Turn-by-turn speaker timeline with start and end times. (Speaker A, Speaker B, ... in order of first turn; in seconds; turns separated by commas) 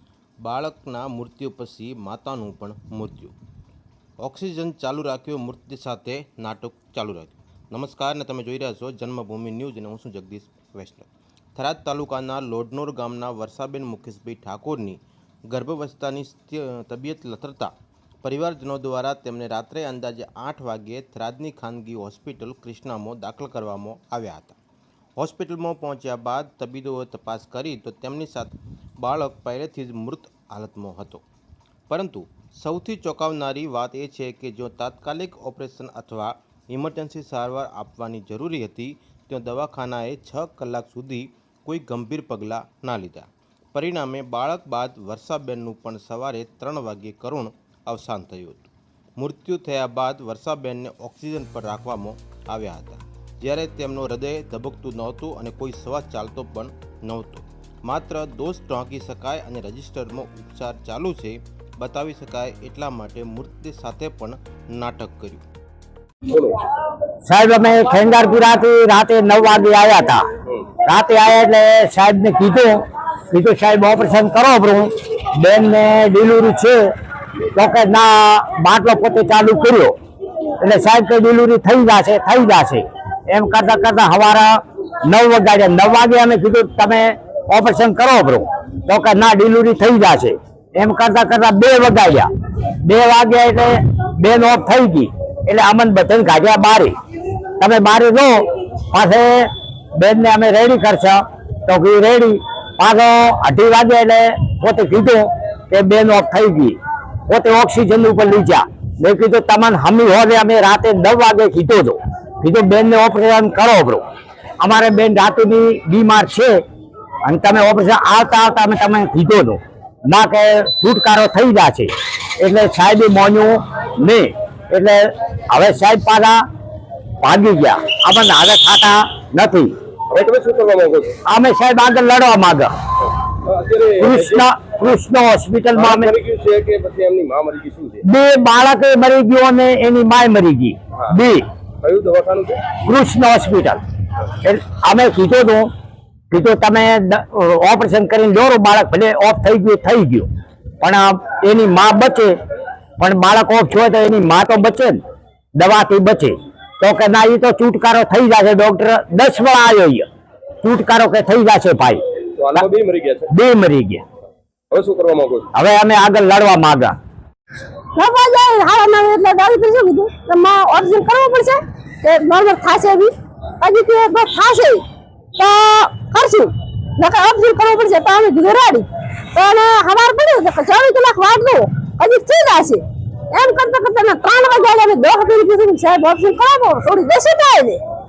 Speaker A: 0.4-3.3, Speaker A: 4.2-17.7, Speaker A: 18.2-24.6, Speaker A: 25.2-31.2, Speaker A: 31.9-65.4, Speaker B: 66.3-66.6, Speaker C: 67.2-70.2, Speaker C: 70.8-72.7, Speaker C: 73.3-76.8, Speaker C: 77.5-79.9, Speaker C: 80.6-92.3, Speaker C: 92.8-96.9, Speaker C: 97.6-114.0, Speaker C: 114.6-116.6, Speaker C: 117.2-126.4, Speaker C: 127.2-129.7, Speaker B: 130.1-131.2, Speaker C: 131.3-132.7, Speaker B: 133.4-134.5, Speaker C: 134.0-136.1, Speaker B: 135.8-138.0, Speaker C: 138.0-141.4, Speaker B: 141.8-142.6, Speaker C: 142.8-143.8, Speaker C: 144.4-145.7, Speaker C: 146.3-150.3, Speaker C: 150.8-152.4, Speaker C: 153.0-155.0, Speaker C: 155.6-160.1, Speaker C: 160.6-162.0, Speaker B: 162.3-163.3, Speaker C: 163.3-164.0, Speaker B: 164.7-165.5, Speaker C: 165.5-166.9, Speaker D: 167.9-174.8, Speaker D: 175.3-187.8